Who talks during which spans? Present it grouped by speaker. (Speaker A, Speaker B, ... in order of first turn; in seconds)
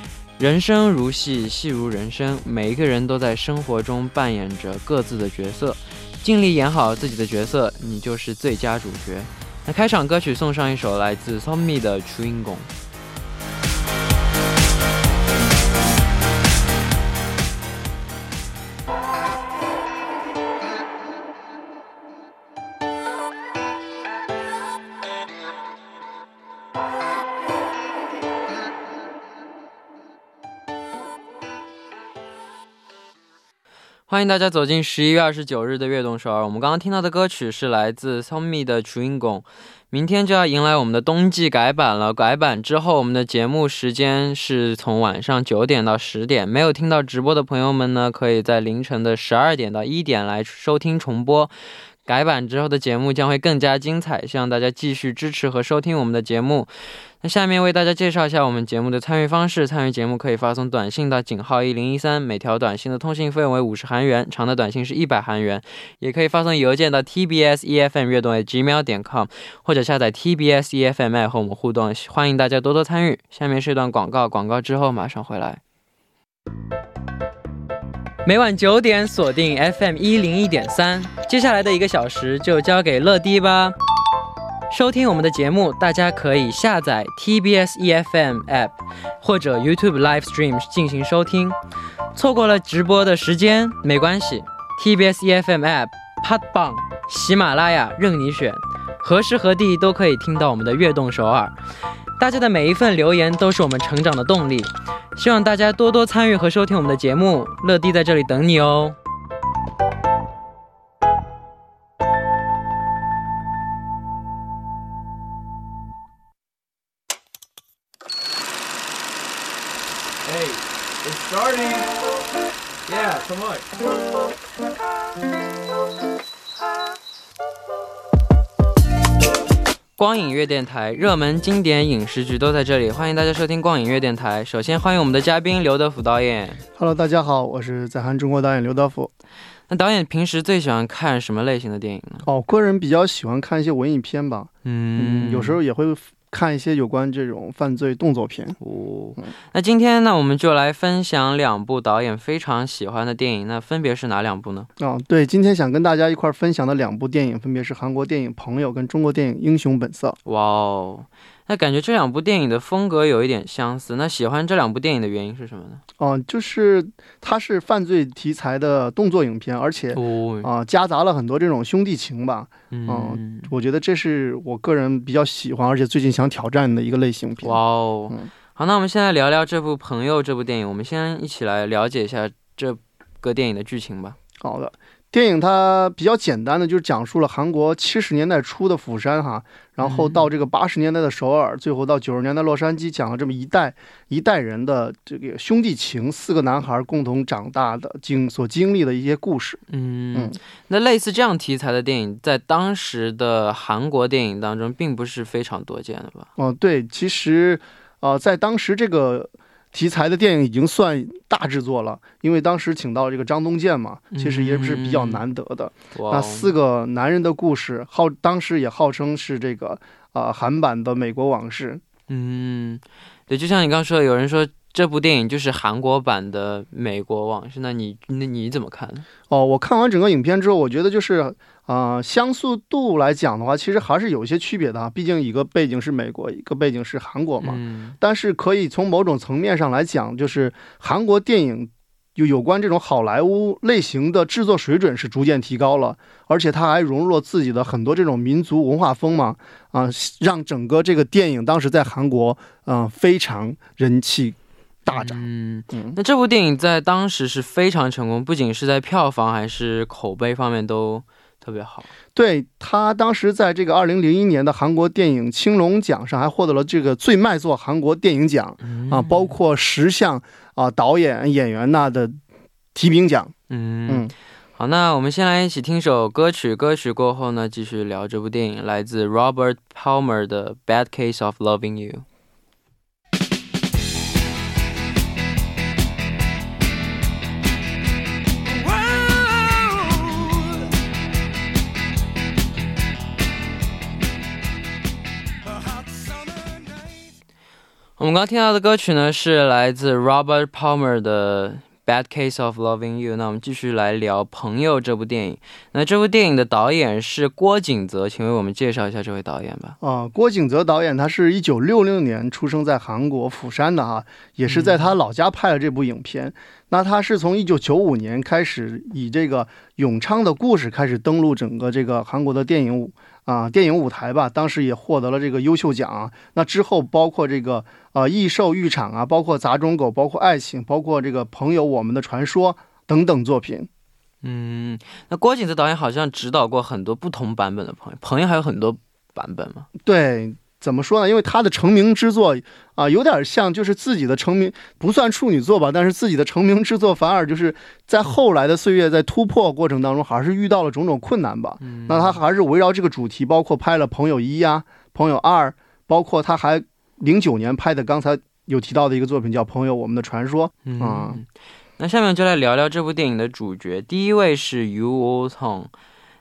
Speaker A: 0.4-12.7, 34.1-51.5, 52.1-75.6, 78.2-83.8, 84.7-91.6, 92.1-101.6, 102.2-109.0, 130.0-136.6, 139.7-142.3, 144.6-145.6, 148.6-154.7, 160.2-165.8, 169.9-170.5, 172.7-173.5, 177.4-184.2, 189.8-190.2, 199.7-206.3, 214.1-215.2, 215.9-216.5, 222.1-229.1, 237.4-238.0, 254.9-261.9, 268.6-269.4, 273.5-282.0, 289.1-290.0, 298.0-309.8, 314.5-314.9, 334.2-339.7, 351.6-352.2, 360.7-365.7
Speaker B: 120.2-121.9, 122.9-123.7
Speaker C: 136.8-139.1, 142.2-148.6, 154.8-160.2, 166.0-177.6, 184.4-199.6, 206.4-221.8, 229.3-256.0, 262.1-272.2, 272.8-273.3, 309.8-333.7, 339.8-361.2